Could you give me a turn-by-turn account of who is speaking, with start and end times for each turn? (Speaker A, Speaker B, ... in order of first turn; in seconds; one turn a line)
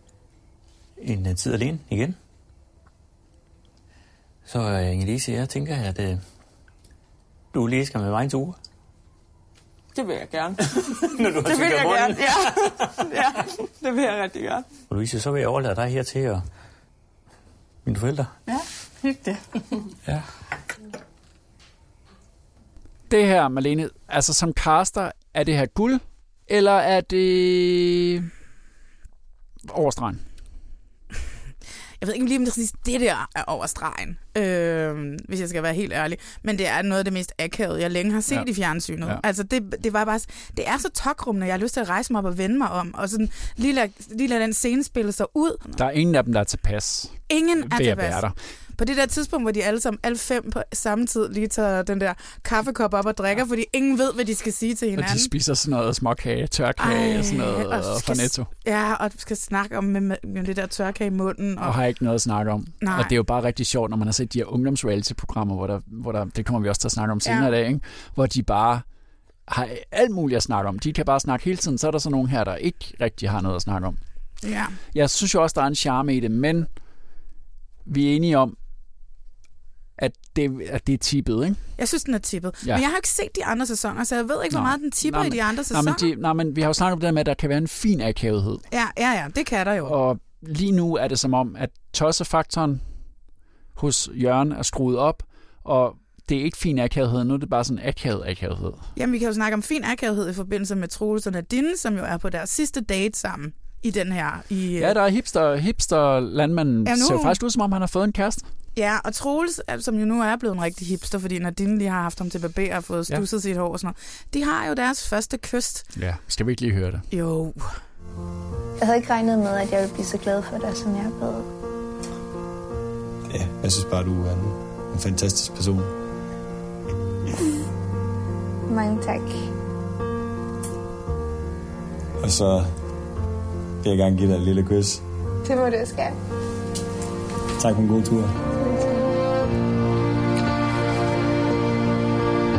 Speaker A: 1.0-2.2
Speaker A: 4.5-6.2
Speaker A: 7.5-8.6
Speaker B: 9.9-14.7
Speaker A: 11.1-12.8
Speaker A: 14.9-16.4
Speaker A: 17.9-18.3
Speaker C: 23.1-28.3
Speaker C: 29.6-30.2
Speaker D: 32.0-45.8
Speaker C: 45.8-48.4
Speaker D: 47.3-48.2
Speaker D: 48.8-55.3
Speaker C: 55.0-58.5
Speaker D: 56.8-61.7
Speaker C: 61.6-68.8
Speaker D: 62.8-63.1
Speaker D: 67.2-67.5
Speaker C: 69.5-74.0
Speaker D: 74.4-74.8
Speaker C: 74.9-76.7
Speaker C: 77.9-78.6
Speaker C: 80.0-81.6
Speaker D: 81.8-86.1
Speaker C: 84.5-88.6
Speaker D: 88.7-90.0
Speaker C: 89.8-92.8
Speaker C: 93.8-98.9
Speaker D: 99.0-105.0
Speaker C: 104.8-108.5
Speaker D: 106.9-107.4
Speaker D: 108.8-115.9
Speaker C: 116.0-117.1
Speaker D: 117.1-117.7
Speaker E: 118.8-121.5
Speaker F: 123.3-125.9
Speaker E: 128.7-129.4
Speaker F: 132.2-132.7
Speaker F: 133.8-135.0
Speaker E: 135.4-136.2
Speaker F: 137.6-138.3
Speaker E: 138.6-139.0